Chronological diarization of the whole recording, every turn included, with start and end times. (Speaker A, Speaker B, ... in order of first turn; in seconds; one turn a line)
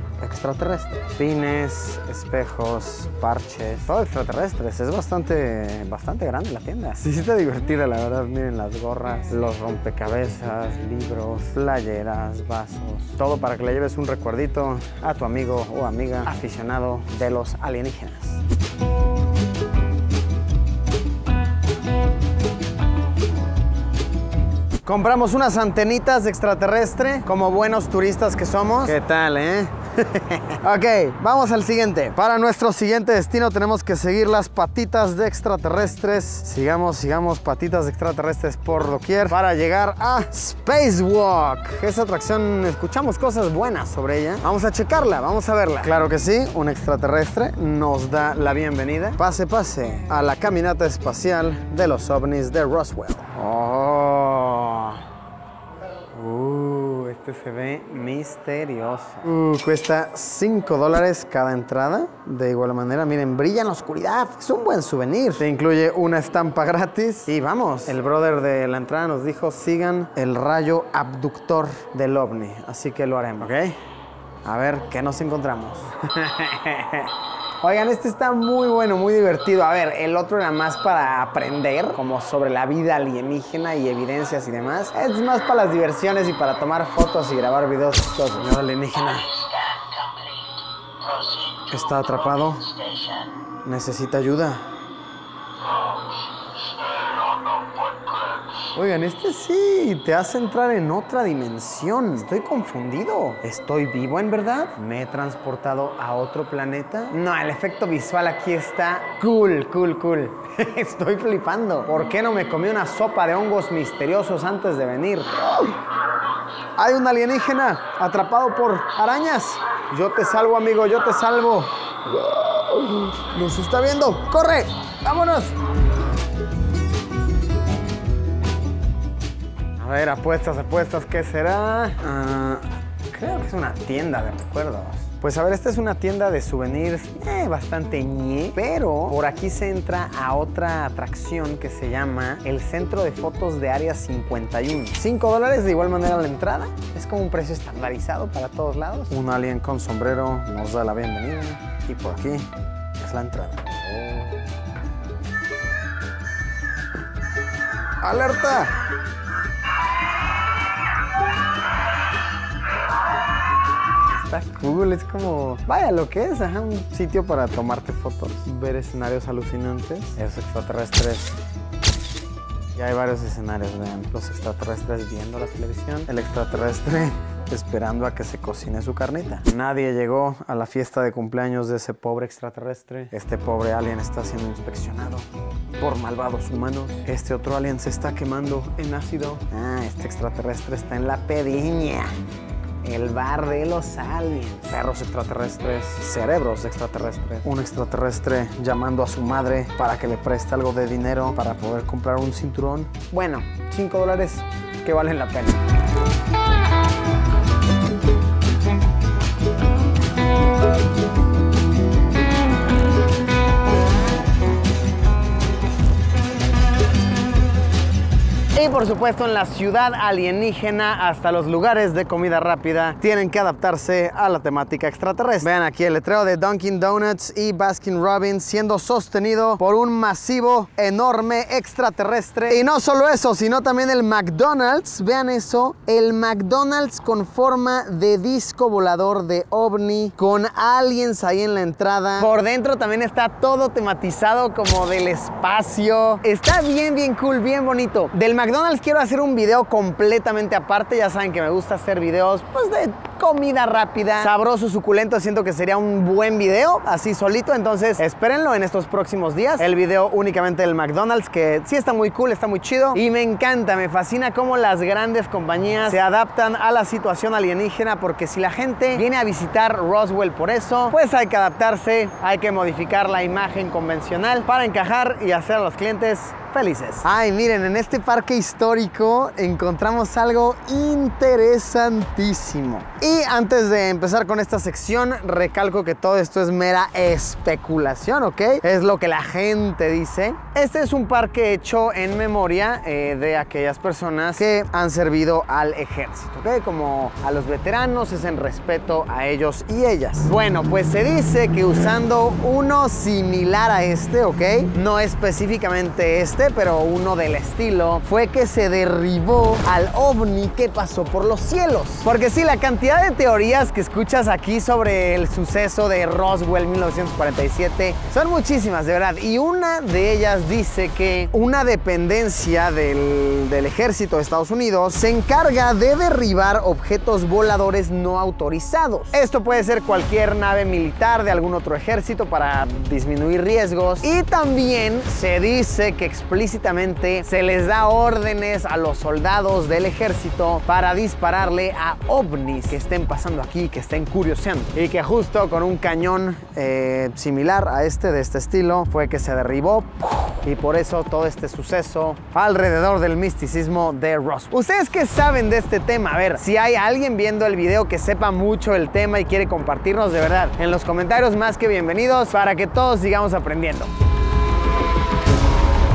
Speaker A: 0.2-18.4
Speaker A: 24.9-55.0
Speaker A: 56.1-73.8
Speaker A: 74.5-89.5
Speaker A: 91.5-94.7
Speaker A: 98.7-115.7
Speaker A: 116.8-125.6
Speaker A: 129.8-154.5
Speaker A: 158.0-158.8
Speaker A: 164.1-171.4
Speaker A: 172.8-192.1
Speaker A: 192.8-205.6
Speaker A: 218.5-363.9